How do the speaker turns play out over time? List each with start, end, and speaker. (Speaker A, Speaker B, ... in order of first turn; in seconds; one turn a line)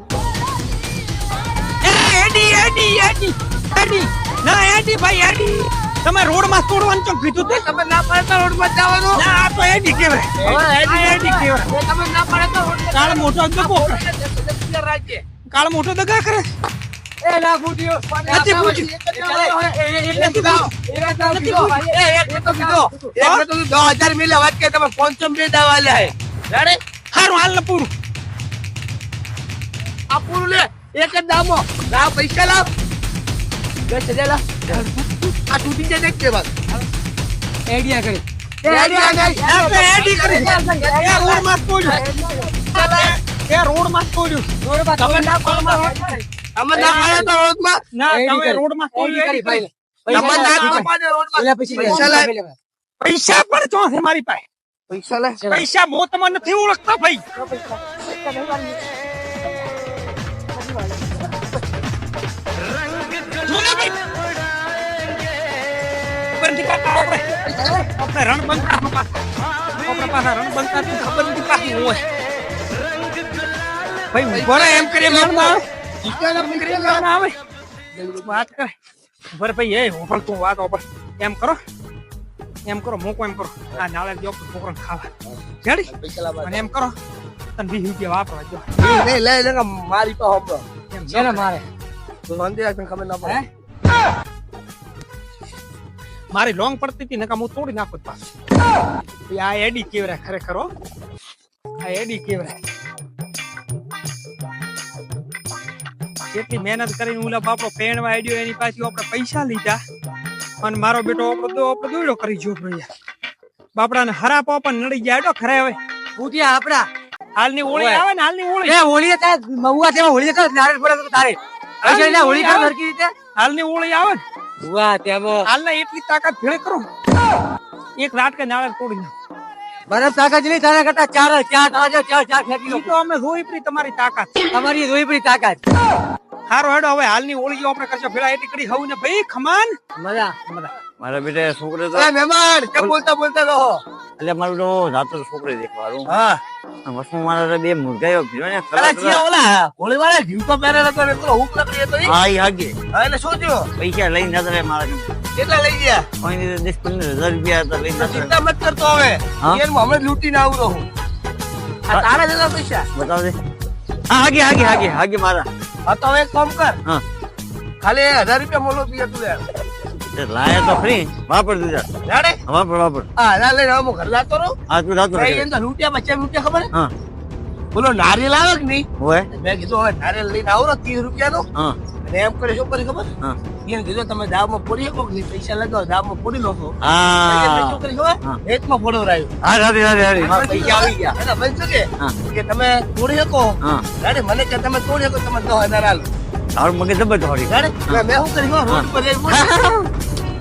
Speaker A: 1.8-7.6
Speaker B: 7.5-9.2
Speaker A: 9.1-11.7
Speaker B: 10.4-15.2
Speaker C: 10.4-11.4
Speaker A: 12.9-14.0
Speaker A: 15.5-16.4
Speaker C: 17.2-23.1
Speaker B: 18.3-20.6
Speaker A: 18.3-18.9
Speaker A: 20.1-20.7
Speaker A: 21.3-21.8
Speaker B: 21.4-26.8
Speaker A: 23.2-23.4
Speaker A: 27.1-27.9
Speaker B: 30.1-32.6
Speaker B: 33.9-34.6
Speaker A: 34.7-35.3
Speaker B: 35.5-36.5
Speaker C: 37.7-42.5
Speaker B: 38.6-43.1
Speaker A: 39.4-42.0
Speaker A: 42.7-44.5
Speaker C: 44.6-47.3
Speaker A: 45.0-46.1
Speaker B: 46.5-47.8
Speaker A: 46.8-47.3
Speaker A: 47.9-50.9
Speaker C: 48.1-52.5
Speaker B: 50.1-52.3
Speaker A: 51.8-52.3
Speaker A: 53.0-54.4
Speaker B: 54.9-55.4
Speaker A: 55.5-57.2
Speaker C: 57.4-58.8
Speaker C: 60.5-61.3
Speaker A: 63.5-63.9
Speaker A: 66.3-67.3
Speaker B: 67.5-67.8
Speaker A: 67.8-69.2
Speaker A: 69.8-72.0
Speaker A: 74.1-75.6
Speaker B: 74.3-77.0
Speaker A: 76.3-77.3
Speaker B: 77.9-78.4
Speaker A: 78.2-78.7
Speaker A: 79.3-81.6
Speaker A: 82.7-85.1
Speaker A: 85.6-85.9
Speaker B: 85.9-86.7
Speaker A: 86.4-86.9
Speaker A: 87.5-88.7
Speaker B: 88.8-90.6
Speaker A: 90.9-91.5
Speaker C: 91.1-91.6
Speaker B: 92.3-93.4
Speaker A: 96.3-98.2
Speaker A: 99.3-100.7
Speaker A: 101.8-102.6
Speaker A: 106.3-109.8
Speaker A: 110.6-112.9
Speaker A: 113.8-115.8
Speaker C: 116.2-116.9
Speaker A: 117.3-118.8
Speaker C: 117.7-118.0
Speaker C: 118.7-123.1
Speaker A: 121.8-122.7
Speaker A: 123.3-124.2
Speaker C: 124.6-125.5
Speaker A: 125.5-126.9
Speaker A: 128.0-129.1
Speaker C: 129.9-132.9
Speaker A: 132.7-134.3
Speaker C: 134.5-135.6
Speaker A: 136.5-139.7
Speaker C: 139.9-140.3
Speaker D: 141.0-142.1
Speaker B: 141.9-143.8
Speaker D: 144.2-146.1
Speaker B: 146.1-146.4
Speaker D: 146.8-149.2
Speaker B: 148.7-152.1
Speaker D: 152.0-152.8
Speaker B: 152.9-153.7
Speaker D: 153.8-155.1
Speaker B: 155.4-156.1
Speaker D: 156.2-158.3
Speaker B: 157.9-160.8
Speaker B: 161.9-162.9
Speaker D: 162.9-163.3
Speaker D: 164.1-165.5
Speaker B: 165.8-166.8
Speaker B: 167.8-169.4
Speaker D: 170.1-171.9
Speaker B: 172.1-172.4
Speaker D: 172.5-173.1
Speaker B: 173.2-174.6
Speaker D: 174.7-175.5
Speaker B: 175.1-176.7
Speaker B: 177.7-181.5
Speaker D: 179.0-179.3
Speaker B: 182.0-183.1
Speaker B: 183.7-186.7
Speaker D: 186.8-188.4
Speaker B: 187.2-189.3
Speaker D: 189.4-191.1
Speaker B: 190.2-196.1
Speaker D: 196.6-198.1
Speaker B: 197.5-199.4
Speaker D: 198.7-199.9